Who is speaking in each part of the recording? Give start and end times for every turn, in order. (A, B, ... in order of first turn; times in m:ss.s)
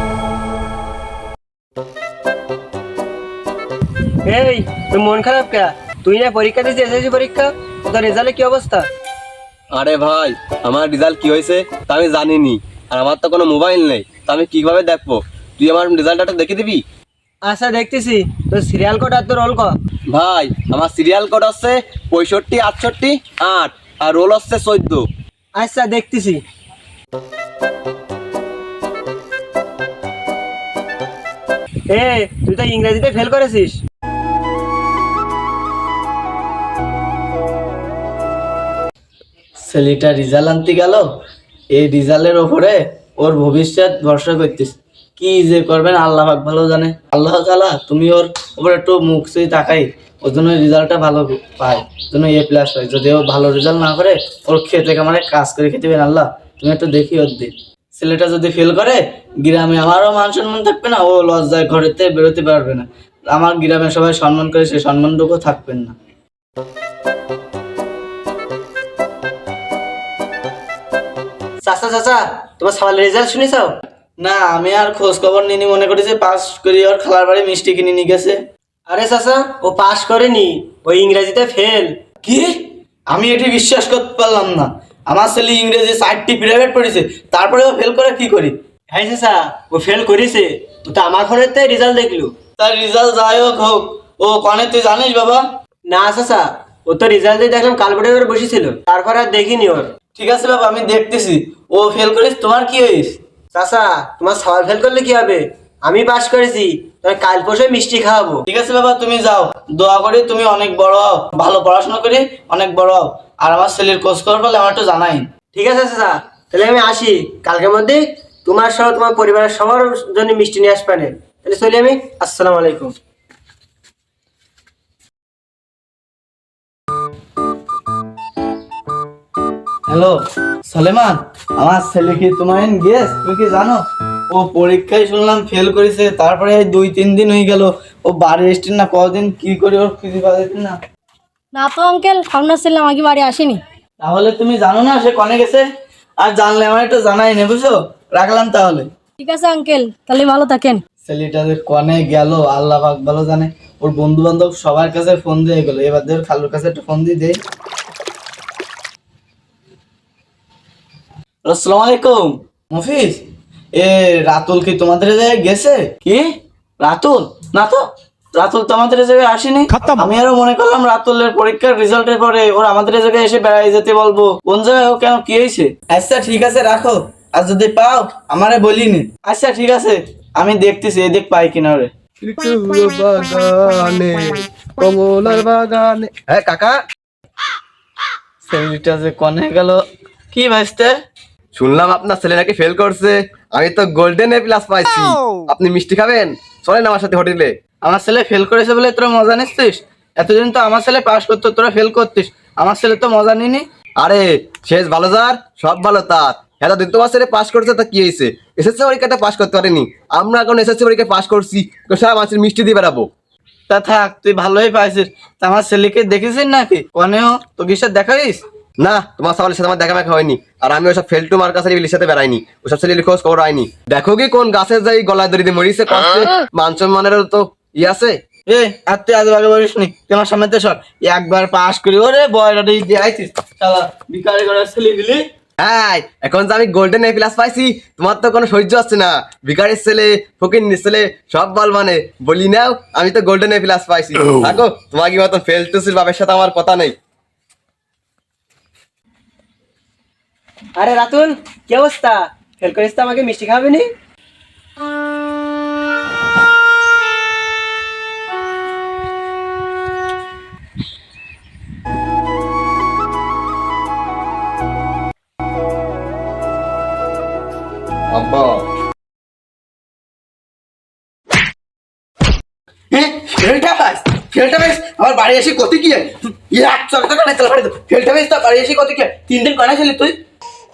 0:04.3-0:08.9 A
0:09.7-0:16.8 B
0:17.4-0:19.7 A
0:20.1-0:25.0 B
0:25.6-0:26.4 A
0:31.9-0:33.8 A
0:39.7-0:41.0 C
0:41.7-1:06.0 C
1:11.6-1:13.7 A
1:14.2-1:18.4 C
1:18.9-1:21.9 A
1:22.2-1:22.5 C
1:23.1-1:28.5 C
1:28.9-1:32.3 A
1:32.6-1:35.4 C
1:35.9-1:39.9 A
1:40.2-1:43.2 C
1:43.5-1:48.4 A
1:48.5-1:55.3 C
1:55.5-2:02.9 A
2:09.9-2:20.8 C
2:21.5-2:23.6 D
2:24.0-2:25.7 C
2:26.2-2:28.9 C
2:29.2-2:30.8 D
2:31.0-2:37.4 C
2:41.4-2:43.2 C
2:43.8-2:46.3 C
2:46.8-2:47.8 C
2:48.3-3:01.9 C
3:02.2-3:06.8 B
3:08.4-3:09.8 C
3:10.3-3:10.9 C
3:11.5-3:17.5 B
3:17.8-3:23.6 C
3:24.0-3:33.1 B
3:33.7-3:38.4 C
3:38.8-3:48.2 B
3:48.5-3:55.2 C
3:55.6-4:06.9 B
4:10.8-4:13.9 A
4:28.1-4:28.6 B
4:32.9-4:40.1 C